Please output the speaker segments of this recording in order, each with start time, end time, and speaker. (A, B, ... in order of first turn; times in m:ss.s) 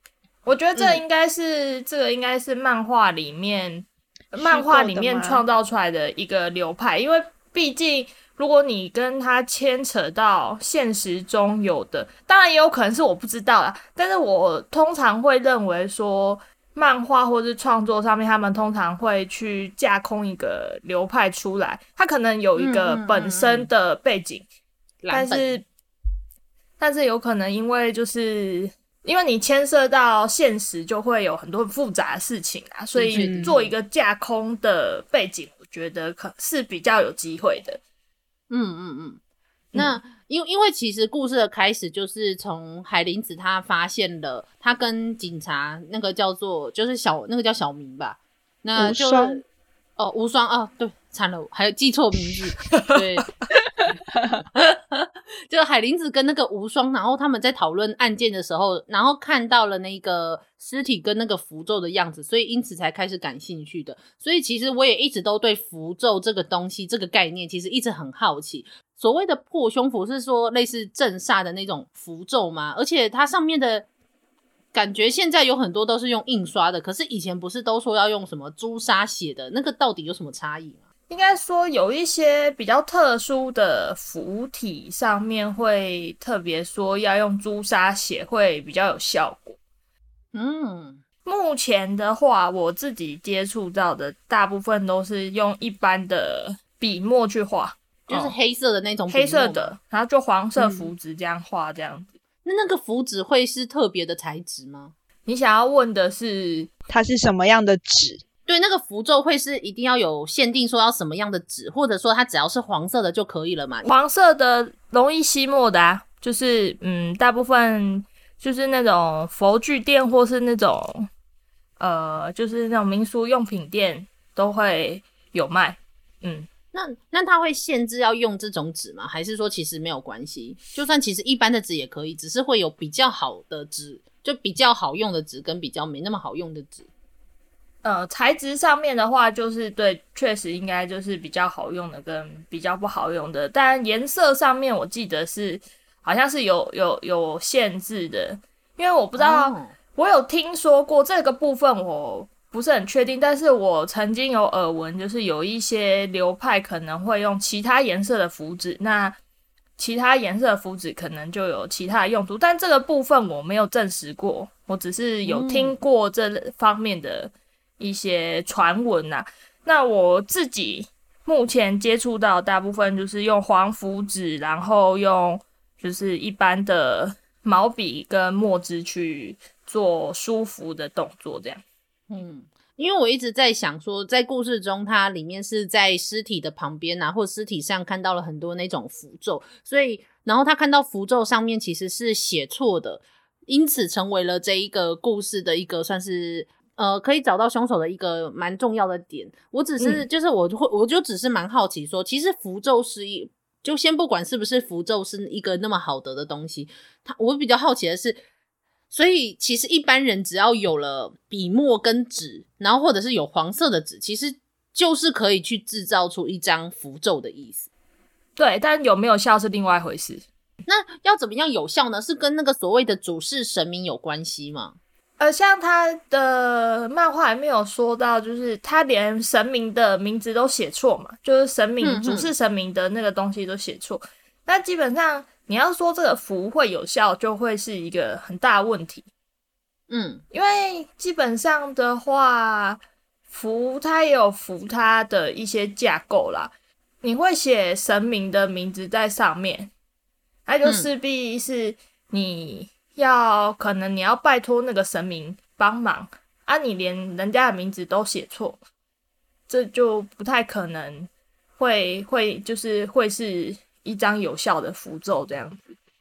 0:00.4-0:24.5 A
0:00.7-0:01.0 B
0:04.3-0:05.4 C
0:22.6-0:23.7 B
0:25.0-0:25.6 B
0:25.1-0:25.6 A
0:26.8-0:37.8 A
0:32.9-0:33.7 B
0:33.1-0:33.5 C
0:38.5-0:39.2 B
0:39.7-0:40.0 A
0:39.7-0:49.4 B
0:48.8-0:49.4 C
0:50.0-0:53.3 B
0:54.5-1:13.9 B
1:14.7-1:20.8 B
1:21.1-1:29.6 A
1:30.3-1:31.0 B
1:31.2-1:38.3 A
1:38.1-1:39.7 B
1:39.1-1:42.1 A
1:42.4-1:44.9 B
1:45.2-1:46.7 A
1:46.9-1:48.2 C
1:48.5-1:53.9 B
1:53.8-2:01.1 A
2:01.8-2:06.5 A
2:06.7-2:16.9 B
2:17.8-2:39.2 A
2:29.2-2:29.7 B
2:39.8-3:01.6 A
2:45.2-2:45.8 B
3:02.1-3:28.2 B
3:19.8-3:20.0 A
3:28.9-3:37.7 B
3:38.4-3:40.2 A
3:40.7-3:44.8 B
3:45.2-3:59.1 A
3:51.8-3:52.3 B
3:59.9-4:00.2 B
4:00.3-4:09.7 A
4:10.4-4:18.6 A
4:19.5-4:25.8 A